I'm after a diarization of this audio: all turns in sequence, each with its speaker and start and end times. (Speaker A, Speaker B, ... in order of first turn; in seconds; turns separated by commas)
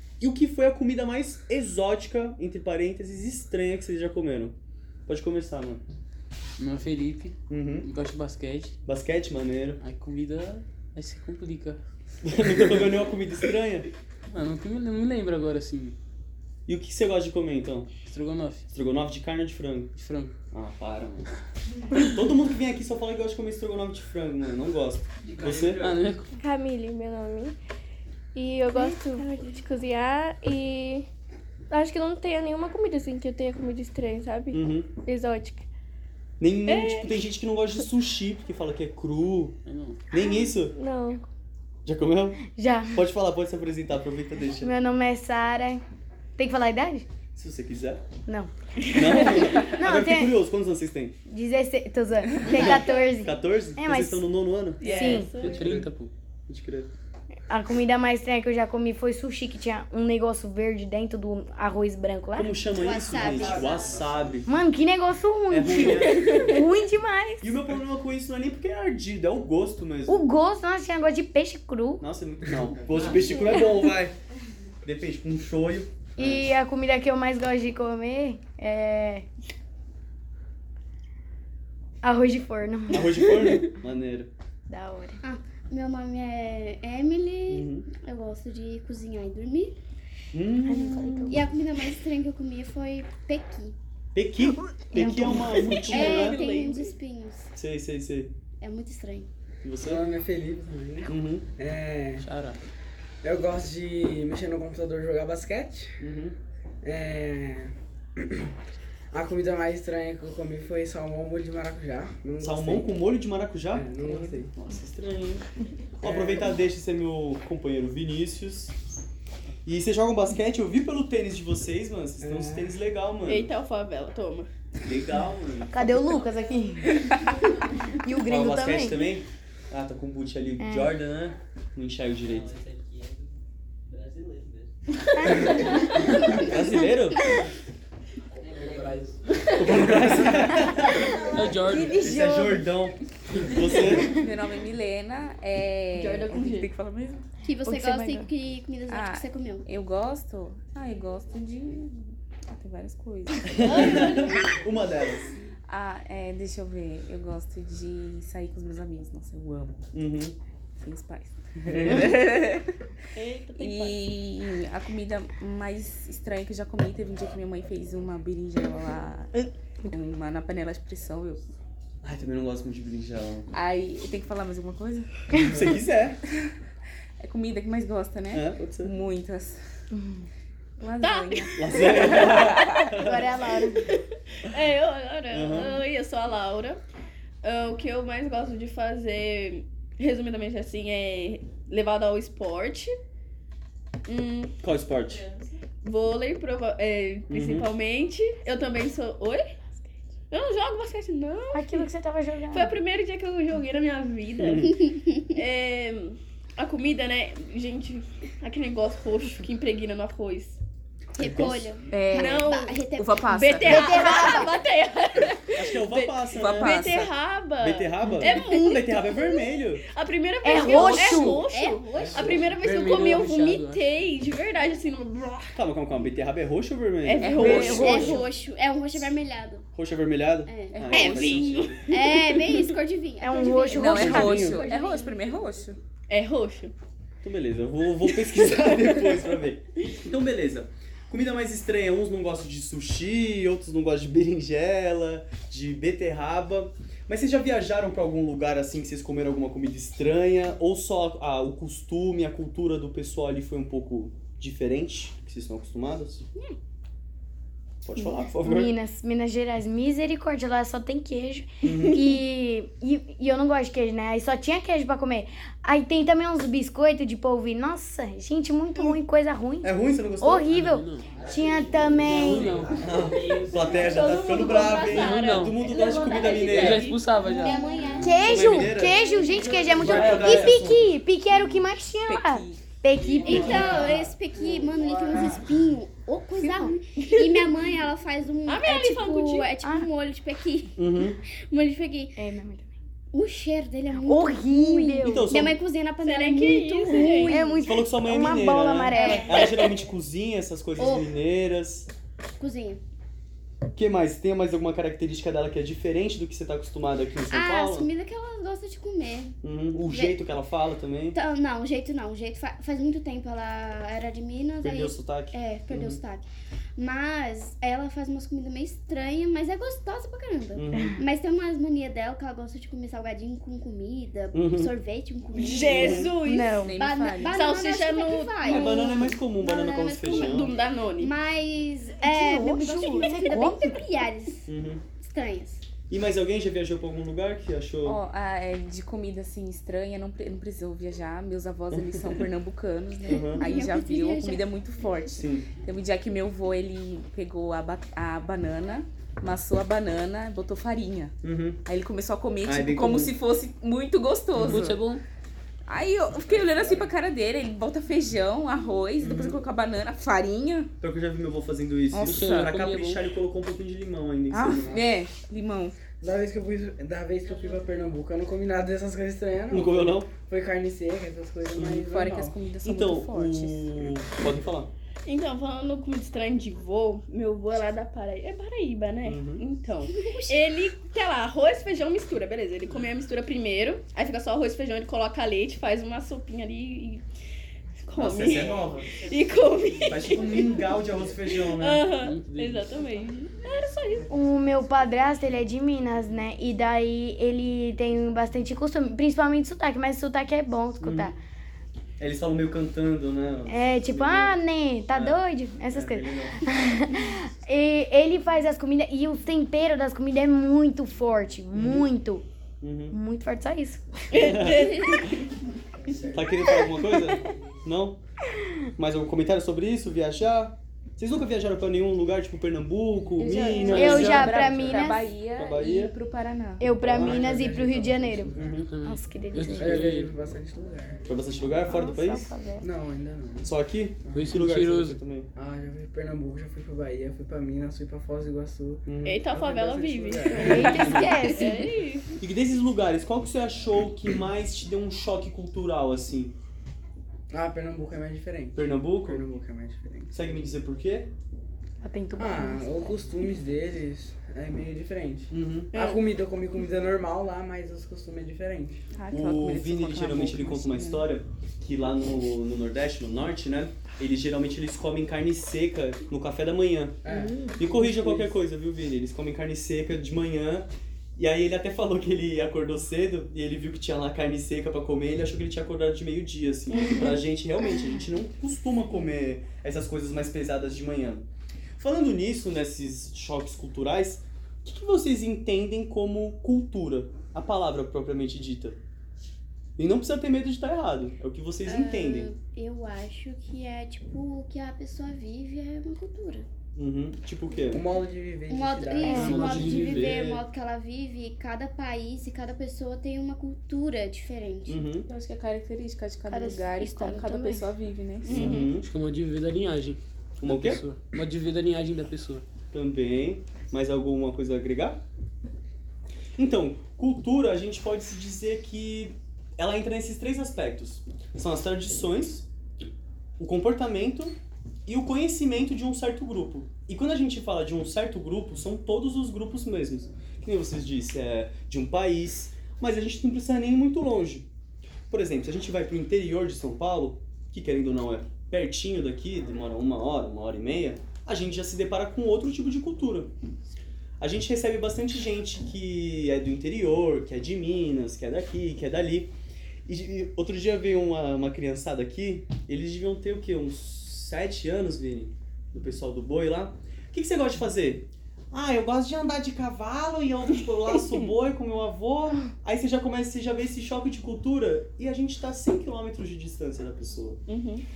Speaker A: 0.2-4.5, Speaker A: 5.1-5.8, Speaker B: 6.6-8.7, Speaker A: 7.5-7.9, Speaker A: 8.8-9.8, Speaker B: 9.8-11.8, Speaker A: 12.2-13.9, Speaker B: 14.3-15.9, Speaker A: 16.7-17.9, Speaker B: 18.0-18.6, Speaker A: 18.7-19.9, Speaker B: 19.9-20.3, Speaker A: 20.5-21.3, Speaker A: 22.1-25.9, Speaker B: 25.8-26.3, Speaker C: 26.4-27.6, Speaker C: 28.3-31.1, Speaker D: 29.0-29.5, Speaker C: 31.7-35.7, Speaker A: 34.5-34.9, Speaker A: 36.4-39.5, Speaker C: 36.7-37.1, Speaker B: 39.6-40.0, Speaker A: 40.1-40.8, Speaker C: 40.1-41.2, Speaker A: 41.8-44.7, Speaker E: 42.5-43.0, Speaker E: 44.6-45.8, Speaker E: 46.4-47.0, Speaker A: 47.3-48.0, Speaker E: 48.2-50.4, Speaker A: 48.9-51.2, Speaker D: 49.2-49.8, Speaker E: 51.2-54.3, Speaker A: 52.5-55.9, Speaker D: 54.8-55.6, Speaker E: 54.9-55.4, Speaker B: 55.0-56.1, Speaker A: 56.5-56.9, Speaker E: 57.5-62.5, Speaker A: 62.3-64.5, Speaker F: 62.7-64.1, Speaker E: 64.5-67.6, Speaker A: 65.5-66.6, Speaker D: 65.7-66.5, Speaker A: 67.4-70.3, Speaker E: 70.1-72.0, Speaker A: 72.0-74.1, Speaker A: 74.8-76.5, Speaker E: 76.3-79.2, Speaker E: 82.0-83.7, Speaker A: 82.9-84.3, Speaker E: 84.7-85.2, Speaker F: 85.2-89.8, Speaker A: 87.5-87.9, Speaker A: 90.3-91.1, Speaker E: 90.6-91.5, Speaker F: 91.3-93.8, Speaker A: 94.1-96.4, Speaker E: 94.7-95.9, Speaker D: 95.8-96.8, Speaker F: 95.9-97.5, Speaker G: 96.0-96.9, Speaker A: 97.5-98.3, Speaker F: 98.6-99.3, Speaker A: 99.6-100.0, Speaker H: 99.8-102.3, Speaker A: 101.0-101.5, Speaker B: 102.2-102.6, Speaker H: 103.2-105.9, Speaker A: 106.0-106.3, Speaker H: 106.8-108.5, Speaker H: 109.1-113.0, Speaker A: 112.4-115.4, Speaker H: 113.7-114.5, Speaker A: 116.0-118.7, Speaker H: 116.0-116.5, Speaker A: 119.7-123.5, Speaker H: 122.2-122.8, Speaker D: 123.3-124.5, Speaker A: 124.8-125.8, Speaker E: 125.7-127.1, Speaker E: 128.0-129.0, Speaker A: 128.2-132.6, Speaker E: 130.6-130.9, Speaker E: 135.2-136.4, Speaker D: 135.4-136.3, Speaker A: 136.3-137.2, Speaker B: 138.7-139.1, Speaker A: 139.5-141.1, Speaker B: 141.3-142.0, Speaker G: 141.5-142.7, Speaker A: 141.9-144.1, Speaker G: 143.9-147.3, Speaker D: 145.9-146.7, Speaker F: 147.4-149.7, Speaker E: 147.6-148.3, Speaker G: 148.9-151.9, Speaker G: 152.5-154.1, Speaker A: 153.5-155.3, Speaker D: 153.6-154.1, Speaker G: 155.7-159.8, Speaker A: 159.9-160.3, Speaker G: 160.8-162.7, Speaker A: 161.7-162.1, Speaker D: 163.1-164.0, Speaker G: 163.6-171.4, Speaker A: 172.0-173.5, Speaker G: 173.5-175.1, Speaker A: 175.5-176.2, Speaker G: 177.2-179.6, Speaker A: 178.3-178.9, Speaker G: 180.8-182.9, Speaker D: 181.0-181.5, Speaker A: 181.6-183.5, Speaker E: 183.0-183.9, Speaker D: 183.9-186.8, Speaker A: 185.3-185.8, Speaker D: 187.4-192.9, Speaker D: 194.1-194.5, Speaker A: 194.6-195.2, Speaker D: 195.8-199.4, Speaker A: 197.3-197.7, Speaker D: 200.3-201.9, Speaker E: 201.5-202.7, Speaker D: 202.5-210.6, Speaker A: 204.4-204.8, Speaker F: 204.7-205.3, Speaker A: 211.1-211.7, Speaker F: 211.2-214.6, Speaker G: 211.9-212.4, Speaker D: 212.1-225.6, Speaker G: 212.9-214.3, Speaker E: 213.7-214.4, Speaker A: 215.6-216.8, Speaker G: 216.3-217.1, Speaker A: 217.6-219.9, Speaker F: 218.3-218.6, Speaker E: 220.4-221.4, Speaker F: 220.7-222.5, Speaker B: 221.1-221.3, Speaker B: 222.4-223.9, Speaker A: 225.5-228.2, Speaker D: 227.0-228.2, Speaker G: 227.2-228.2, Speaker F: 227.4-229.6, Speaker B: 227.5-228.1, Speaker A: 229.7-231.9, Speaker F: 230.4-230.9, Speaker G: 230.7-231.6, Speaker D: 230.9-232.7, Speaker F: 231.9-235.1, Speaker E: 233.2-234.4, Speaker G: 233.7-235.8, Speaker A: 233.9-234.6, Speaker D: 236.1-236.7, Speaker A: 237.2-256.3, Speaker A: 257.8-258.7, Speaker E: 258.4-272.6, Speaker A: 261.6-262.0, Speaker A: 269.6-270.5, Speaker B: 270.4-271.2, Speaker B: 272.0-272.8, Speaker A: 272.7-276.9, Speaker D: 273.7-277.6, Speaker B: 274.8-275.5, Speaker B: 276.5-277.8, Speaker F: 277.3-278.4, Speaker E: 278.0-283.8, Speaker A: 278.1-279.0, Speaker D: 279.0-279.5, Speaker B: 279.6-280.8, Speaker A: 279.8-280.8, Speaker G: 282.1-282.6, Speaker F: 283.2-292.2, Speaker A: 283.3-283.9, Speaker E: 286.5-286.7, Speaker D: 287.0-287.5, Speaker D: 288.5-289.5, Speaker E: 289.6-289.9, Speaker A: 290.8-291.2, Speaker E: 292.2-292.7, Speaker F: 293.1-297.5, Speaker E: 293.9-295.2, Speaker A: 295.0-295.6, Speaker D: 296.0-297.5, Speaker E: 296.9-299.3, Speaker A: 297.6-301.9, Speaker F: 298.9-299.8, Speaker F: 300.8-301.1, Speaker F: 302.3-302.8, Speaker A: 303.7-307.9, Speaker F: 307.3-310.3, Speaker A: 309.4-311.2, Speaker F: 311.1-326.1, Speaker A: 314.6-316.0, Speaker A: 320.5-321.0, Speaker E: 320.7-321.0, Speaker A: 324.3-324.7, Speaker D: 325.3-326.7, Speaker A: 325.5-326.2, Speaker E: 326.1-326.8, Speaker G: 326.6-327.5, Speaker F: 326.8-335.6, Speaker D: 327.2-328.7, Speaker A: 328.4-330.5, Speaker D: 330.1-331.1, Speaker E: 332.0-333.8, Speaker A: 334.5-334.8, Speaker A: 335.9-338.0, Speaker G: 337.8-354.8, Speaker A: 341.7-342.2, Speaker A: 343.1-343.5, Speaker F: 343.1-344.4, Speaker A: 345.1-345.5, Speaker A: 351.2-351.6, Speaker A: 352.4-353.1, Speaker B: 354.4-355.0, Speaker G: 355.7-360.7, Speaker A: 359.0-359.4, Speaker A: 360.8-364.8, Speaker G: 361.9-362.5, Speaker B: 362.0-363.0, Speaker G: 364.3-365.8, Speaker H: 366.0-372.4, Speaker A: 369.5-370.1, Speaker A: 371.5-371.9, Speaker G: 371.6-373.7, Speaker A: 372.6-374.7, Speaker D: 375.1-387.0, Speaker A: 379.0-379.4, Speaker F: 380.0-380.4, Speaker D: 387.8-390.6, Speaker A: 387.9-388.9, Speaker A: 389.9-391.9, Speaker D: 391.3-394.1, Speaker B: 392.0-392.8, Speaker E: 394.1-401.1, Speaker A: 400.8-401.1, Speaker A: 402.0-406.4, Speaker E: 403.5-412.2, Speaker A: 411.5-411.9, Speaker A: 412.6-412.9, Speaker E: 412.9-414.2, Speaker D: 414.1-415.2, Speaker A: 414.2-415.1, Speaker A: 416.1-418.0, Speaker A: 418.8-424.1, Speaker G: 423.2-426.7, Speaker B: 423.6-424.9, Speaker E: 423.7-425.1, Speaker A: 425.3-425.9, Speaker E: 426.6-429.8, Speaker H: 426.8-428.6, Speaker A: 426.9-427.4, Speaker A: 428.3-428.7, Speaker B: 428.6-430.1, Speaker H: 429.6-431.0, Speaker A: 431.0-432.3, Speaker E: 431.6-432.7, Speaker H: 432.6-434.4, Speaker A: 433.4-435.3, Speaker B: 434.1-435.0, Speaker H: 435.4-441.0, Speaker A: 438.9-439.2, Speaker D: 439.0-442.1, Speaker E: 440.4-441.7, Speaker A: 442.2-446.4, Speaker H: 447.3-450.1, Speaker A: 448.5-449.2, Speaker A: 450.1-451.1, Speaker E: 451.8-453.0, Speaker H: 452.2-458.8, Speaker A: 455.3-455.8, Speaker D: 455.7-456.0, Speaker G: 458.9-461.1, Speaker A: 459.1-467.0, Speaker H: 467.0-467.4, Speaker A: 467.6-481.2, Speaker H: 468.0-468.2, Speaker D: 476.7-477.1, Speaker A: 481.8-488.8, Speaker A: 489.8-492.3, Speaker F: 491.6-496.5, Speaker A: 496.7-497.8, Speaker H: 497.7-499.1, Speaker F: 498.5-504.9, Speaker E: 499.0-499.4, Speaker B: 499.1-500.1, Speaker A: 499.2-500.4, Speaker A: 504.7-505.1, Speaker G: 505.1-508.4, Speaker E: 506.3-507.7, Speaker D: 508.2-508.7, Speaker A: 508.3-508.9, Speaker B: 508.3-512.5, Speaker A: 510.4-510.8, Speaker A: 512.7-515.0, Speaker A: 516.4-522.5, Speaker A: 523.4-534.5, Speaker A: 535.1-543.3, Speaker A: 544.2-549.3, Speaker A: 549.9-567.4, Speaker D: 567.5-567.8